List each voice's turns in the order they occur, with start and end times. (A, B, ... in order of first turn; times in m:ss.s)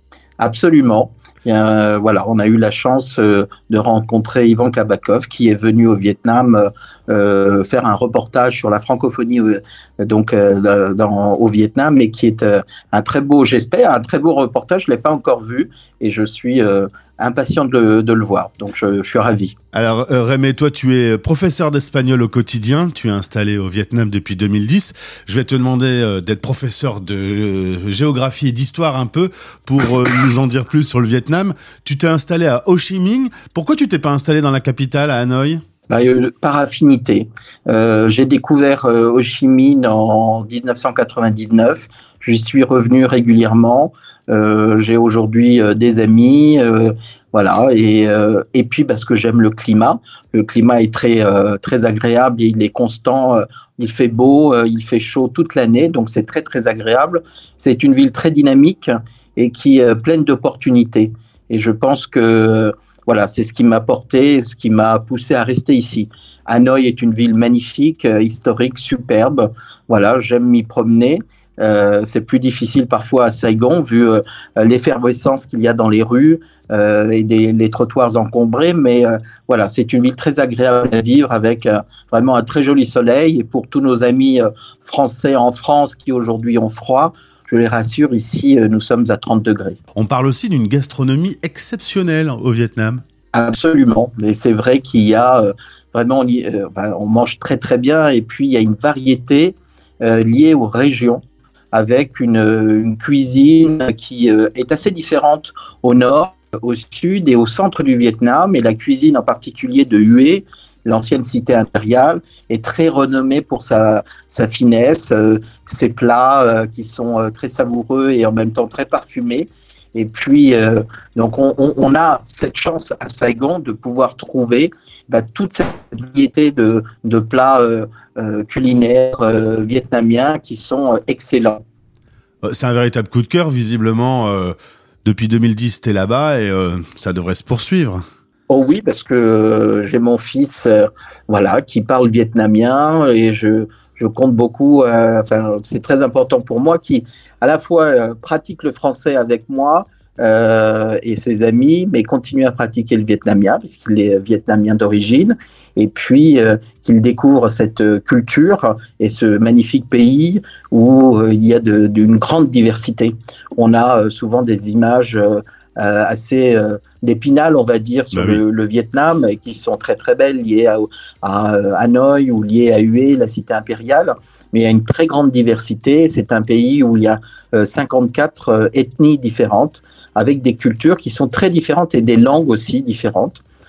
0:00.4-0:19.5 A
0:19.7-0:35.6 B
0:35.9-1:29.8 A
1:29.9-1:33.0 B
1:33.3-1:41.2 A
1:41.7-2:11.6 A
2:12.4-2:18.0 B
2:18.5-3:03.4 A
2:48.1-2:48.4 B